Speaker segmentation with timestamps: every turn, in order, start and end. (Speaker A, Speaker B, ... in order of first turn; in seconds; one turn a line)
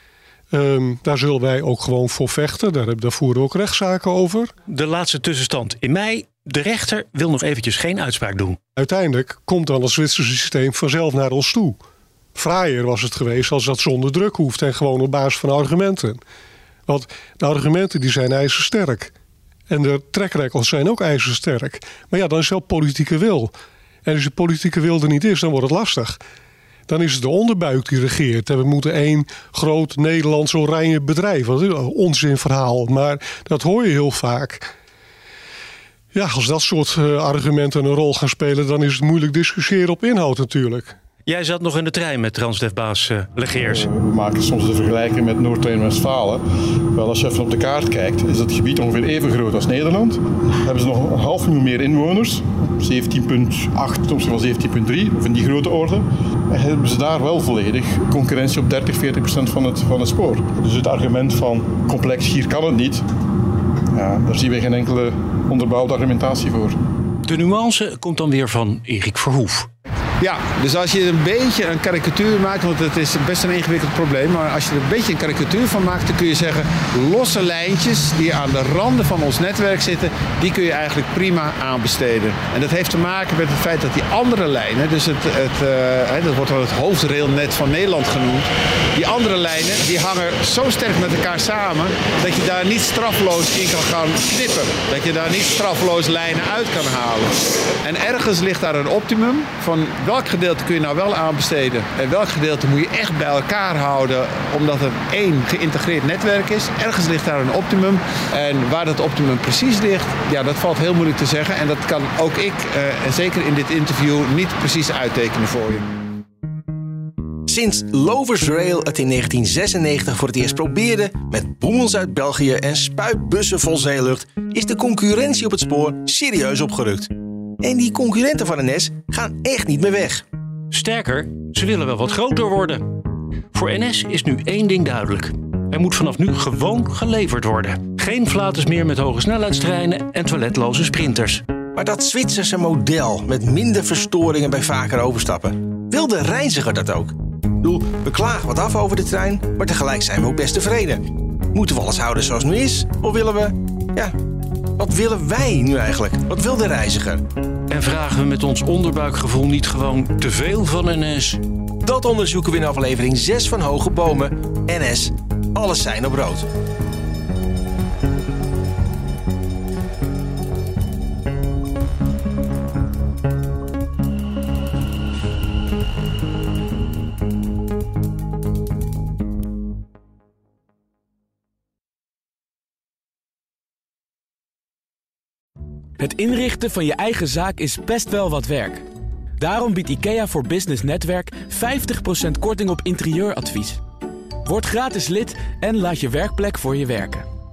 Speaker A: 0.5-4.5
Speaker B: 4.7-8.6
Speaker A: 8.8-11.8
Speaker A: 12.3-16.2
Speaker A: 16.9-19.1
Speaker A: 19.7-23.5
Speaker A: 24.0-26.2
Speaker A: 26.9-34.7
Speaker A: 36.1-41.0
Speaker B: 41.2-43.9
Speaker C: 43.6-63.0
Speaker C: 63.9-66.8
Speaker B: 67.2-69.7
Speaker D: 70.2-115.8
Speaker E: 117.5-130.2
Speaker B: 130.7-132.8
Speaker B: 133.5-141.4
Speaker E: 141.7-154.2
Speaker E: 154.8-157.2
Speaker B: 157.7-161.4
Speaker E: 161.8-166.5
Speaker F: 186.0-188.8
Speaker F: 189.4-193.8
Speaker F: 194.4-197.2